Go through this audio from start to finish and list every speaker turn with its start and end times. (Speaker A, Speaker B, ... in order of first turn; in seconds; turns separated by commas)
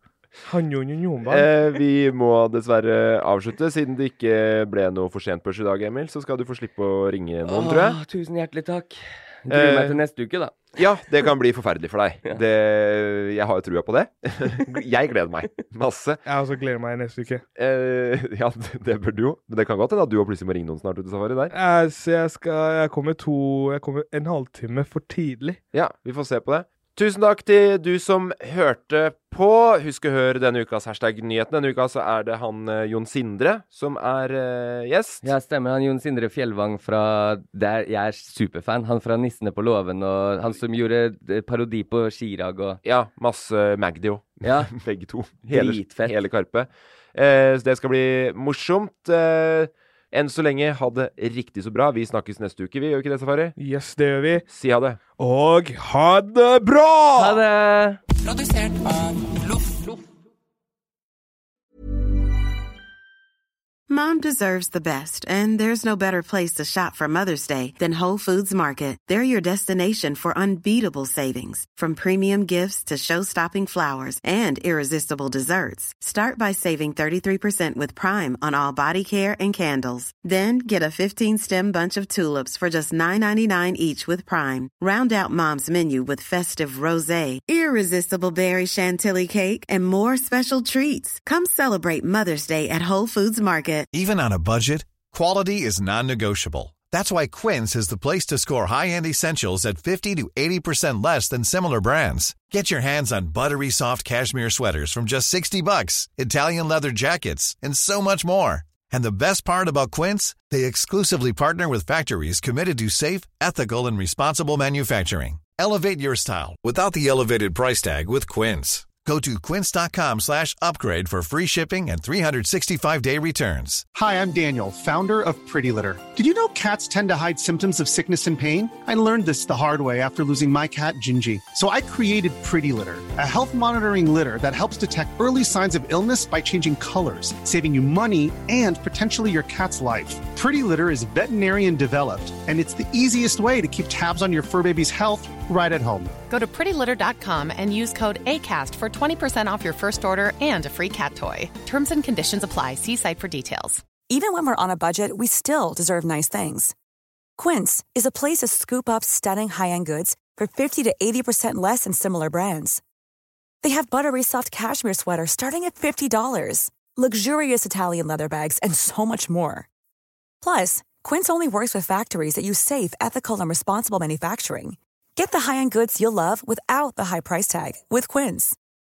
Speaker A: 0.4-1.5, Speaker B: 1.2-8.0, Speaker C: 7.5-10.7, Speaker B: 9.5-10.0, Speaker B: 10.7-16.2, Speaker A: 16.2-17.4, Speaker B: 17.6-21.5, Speaker A: 21.5-25.6, Speaker B: 25.7-35.2, Speaker C: 35.2-42.8, Speaker B: 42.8-53.5, Speaker C: 44.4-44.7, Speaker C: 45.5-46.1, Speaker A: 53.6-54.4, Speaker B: 54.5-55.0, Speaker A: 55.2-57.1, Speaker B: 56.9-57.4, Speaker C: 57.1-58.0, Speaker D: 63.9-93.9, Speaker E: 93.9-123.8, Speaker F: 123.9-146.2, Speaker G: 146.3-153.8, Speaker H: 154.1-156.7, Speaker H: 157.4-162.8, Speaker H: 163.6-169.7, Speaker H: 170.4-178.6